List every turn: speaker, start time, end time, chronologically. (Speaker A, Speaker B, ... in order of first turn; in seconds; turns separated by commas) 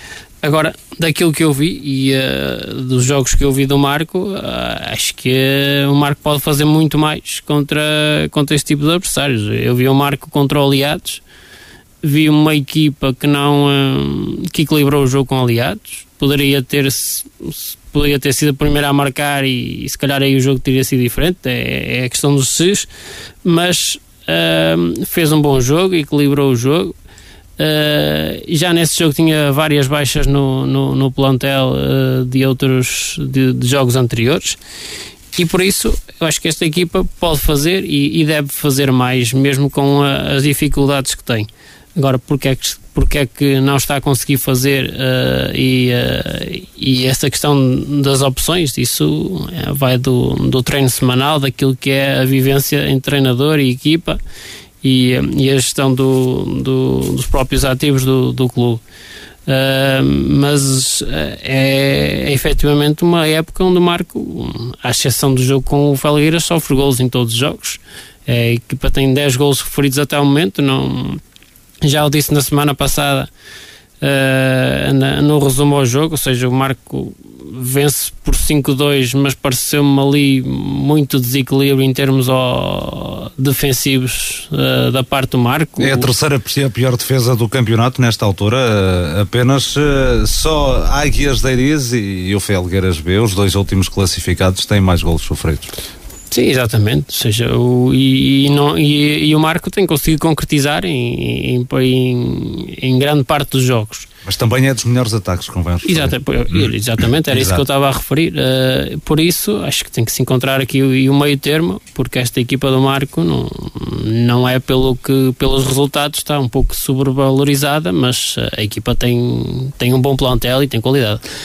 Speaker A: 0.4-11.2, Speaker A: 12.0-22.9, Speaker A: 23.4-26.9, Speaker A: 27.6-34.6, Speaker A: 35.4-54.2, Speaker A: 54.8-58.8, Speaker A: 59.5-71.2, Speaker A: 71.8-73.3, Speaker A: 74.0-86.1, Speaker B: 85.8-95.7, Speaker A: 96.3-104.1, Speaker B: 104.3-106.7, Speaker A: 105.8-121.2, Speaker B: 107.3-107.6